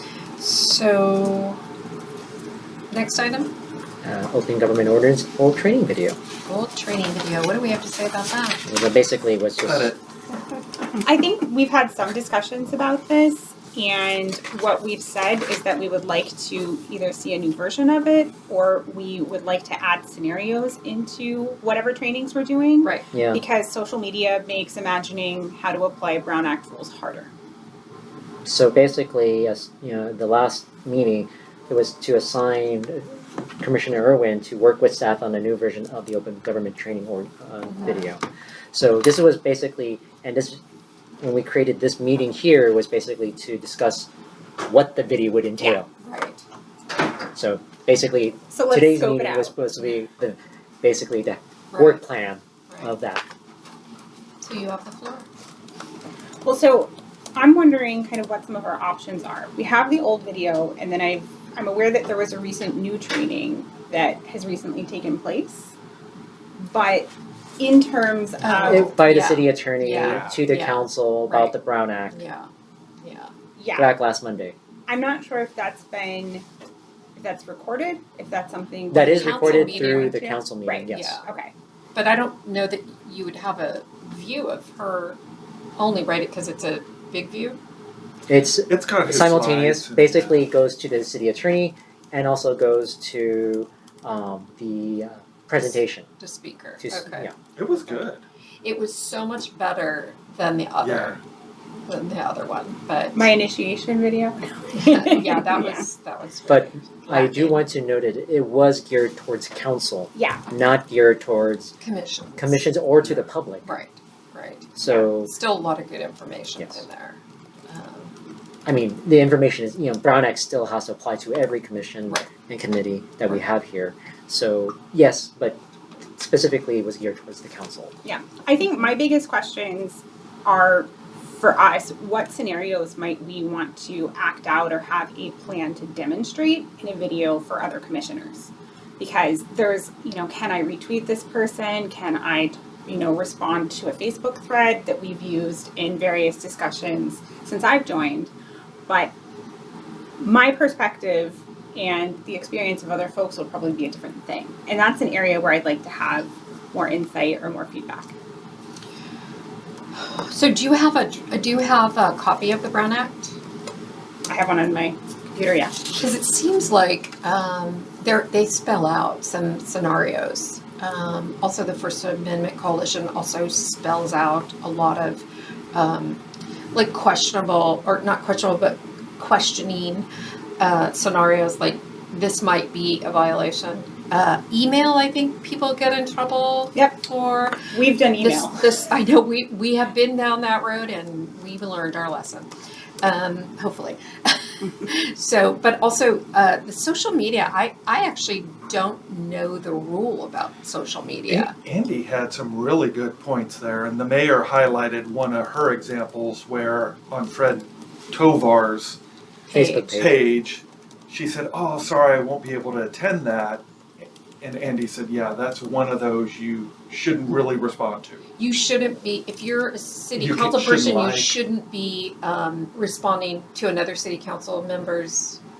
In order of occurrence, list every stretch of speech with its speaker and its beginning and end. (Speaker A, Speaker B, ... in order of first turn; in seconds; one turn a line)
Speaker A: 0.4-1.6
Speaker A: 2.9-3.5
Speaker B: 4.0-6.2
Speaker A: 6.5-8.6
Speaker B: 8.7-9.9
Speaker C: 9.6-10.0
Speaker D: 11.0-27.3
Speaker B: 23.1-23.4
Speaker B: 28.4-40.6
Speaker A: 37.7-38.1
Speaker B: 41.2-44.1
Speaker B: 44.6-45.9
Speaker A: 46.0-46.4
Speaker B: 47.3-53.2
Speaker D: 48.5-49.6
Speaker A: 51.7-52.0
Speaker A: 54.4-55.2
Speaker D: 56.4-65.7
Speaker D: 66.6-69.0
Speaker A: 68.4-71.5
Speaker B: 68.6-72.2
Speaker C: 70.0-70.4
Speaker A: 72.1-72.5
Speaker A: 73.0-73.3
Speaker D: 73.5-73.9
Speaker B: 73.8-74.5
Speaker D: 74.9-76.5
Speaker D: 77.2-81.5
Speaker B: 78.9-81.2
Speaker A: 79.0-80.2
Speaker A: 80.9-81.2
Speaker A: 81.9-85.2
Speaker A: 85.8-87.6
Speaker B: 88.3-96.1
Speaker C: 88.7-90.4
Speaker A: 96.2-97.3
Speaker B: 96.8-97.3
Speaker C: 97.5-98.2
Speaker A: 98.6-101.2
Speaker C: 100.8-101.2
Speaker A: 101.9-103.3
Speaker D: 103.1-105.8
Speaker A: 104.8-107.6
Speaker B: 106.5-111.8
Speaker D: 110.1-110.4
Speaker A: 111.8-112.6
Speaker B: 112.3-113.7
Speaker A: 113.6-118.1
Speaker B: 114.8-115.3
Speaker B: 116.6-116.8
Speaker B: 118.7-125.6
Speaker B: 126.2-127.9
Speaker D: 128.0-148.3
Speaker D: 148.9-149.1
Speaker D: 150.2-158.1
Speaker A: 160.0-163.3
Speaker D: 164.3-165.8
Speaker A: 165.9-176.2
Speaker A: 176.7-180.1
Speaker A: 180.6-187.7
Speaker D: 186.7-187.0
Speaker D: 187.7-188.6
Speaker A: 188.2-192.5
Speaker A: 193.0-201.5
Speaker C: 201.3-209.0
Speaker A: 209.5-209.9
Speaker B: 209.5-210.2
Speaker C: 209.9-218.2
Speaker A: 218.4-225.4
Speaker C: 220.1-221.4